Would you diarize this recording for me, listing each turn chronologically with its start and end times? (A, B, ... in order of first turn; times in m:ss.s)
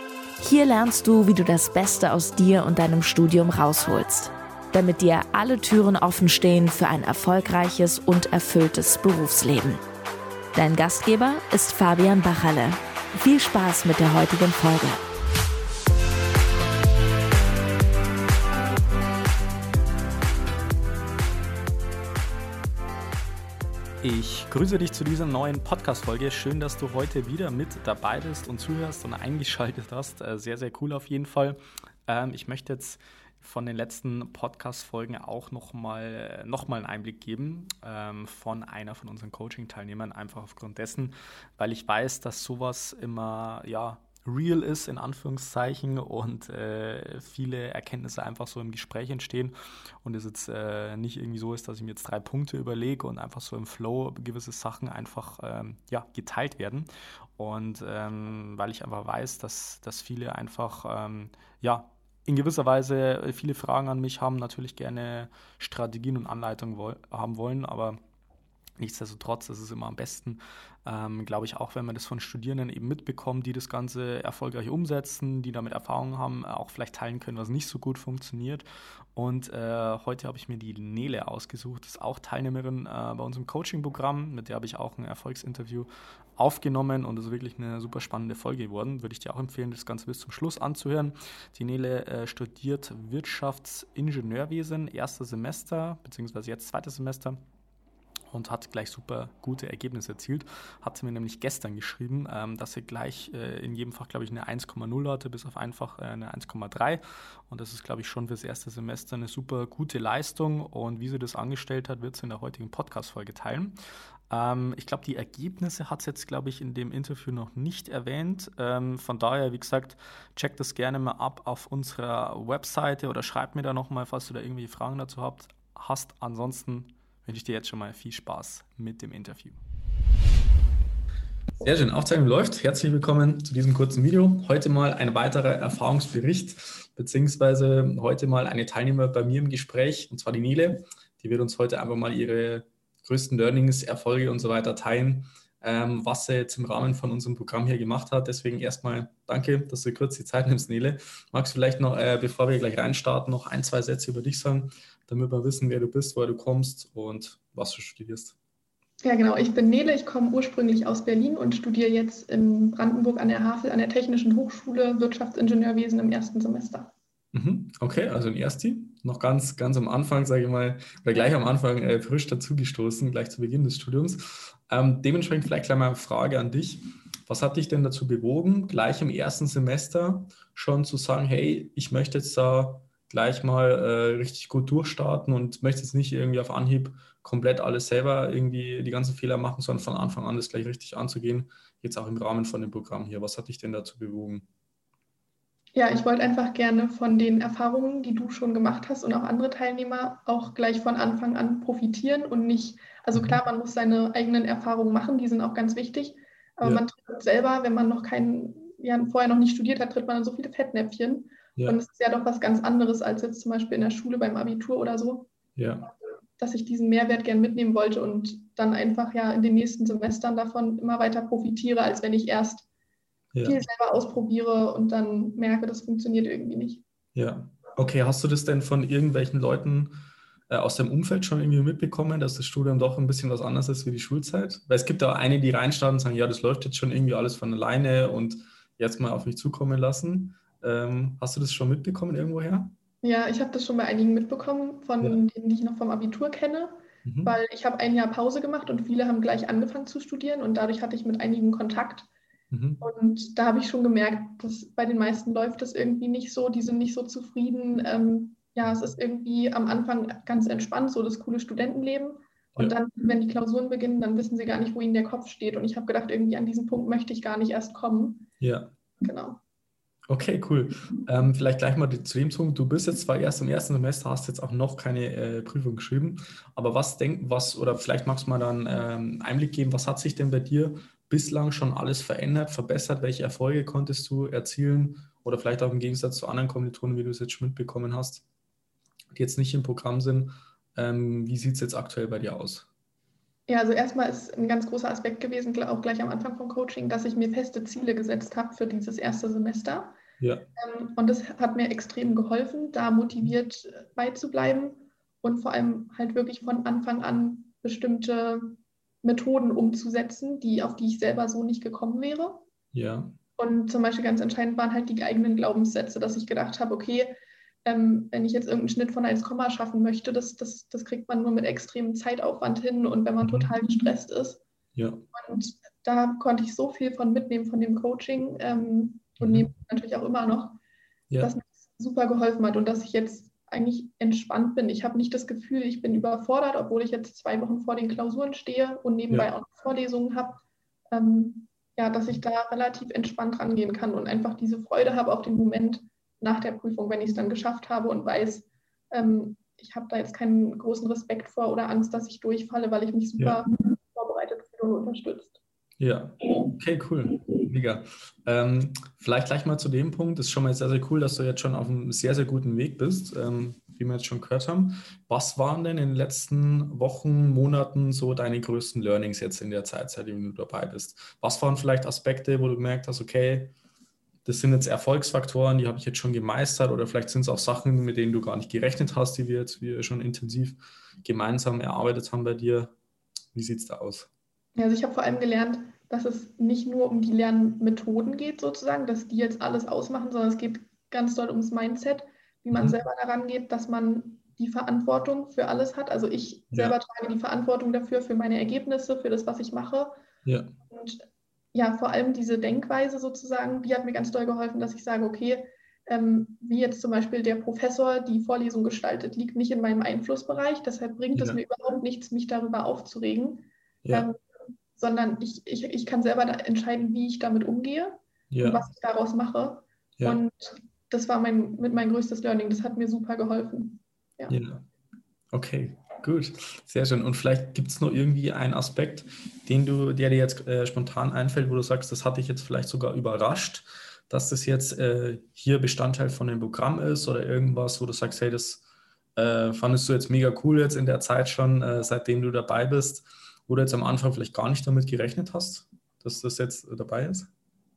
0:00.4-0:09.8 A
0:10.6-0:15.0 A
0:24.0-1:08.0 B
1:08.8-1:37.4 B
1:38.3-1:53.8 B
1:54.3-2:09.6 B
2:11.6-2:38.4 B
2:39.0-2:46.9 C
2:47.3-3:14.5 B
3:15.7-3:35.3 C
3:23.1-3:23.4 B
3:35.6-3:35.9 B
3:36.4-3:42.7 C
3:43.3-3:43.6 B
3:43.4-3:46.8 C
3:47.2-3:50.0 B
3:50.5-4:02.8 B
4:03.0-4:12.1 C
4:07.0-4:07.4 B
4:12.5-4:12.8 B
4:12.8-4:28.3 C
4:28.4-4:28.7 B
4:29.0-4:29.4 C
4:30.1-4:48.2 B
4:49.2-4:52.7 B
4:53.5-5:00.0 C
5:00.2-5:00.5 B
5:00.6-5:12.5 C
5:12.7-5:13.2 B
5:13.4-5:24.4 C
5:23.2-5:23.5 B
5:24.8-5:25.0 B
5:25.2-5:30.6 C
5:29.2-5:29.5 B
5:31.2-5:55.4 C
5:55.8-6:13.5 B
6:14.2-6:22.7 B
6:23.3-6:24.1 B
6:24.6-6:40.0 C
6:32.5-6:32.8 B
6:40.2-6:40.5 B
6:40.7-6:54.2 C
6:51.1-6:51.4 B
6:53.8-6:54.1 B
6:54.7-7:04.4 C
6:58.3-6:58.6 B
7:04.3-7:04.6 B
7:05.3-7:18.6 B
7:19.2-7:27.3 B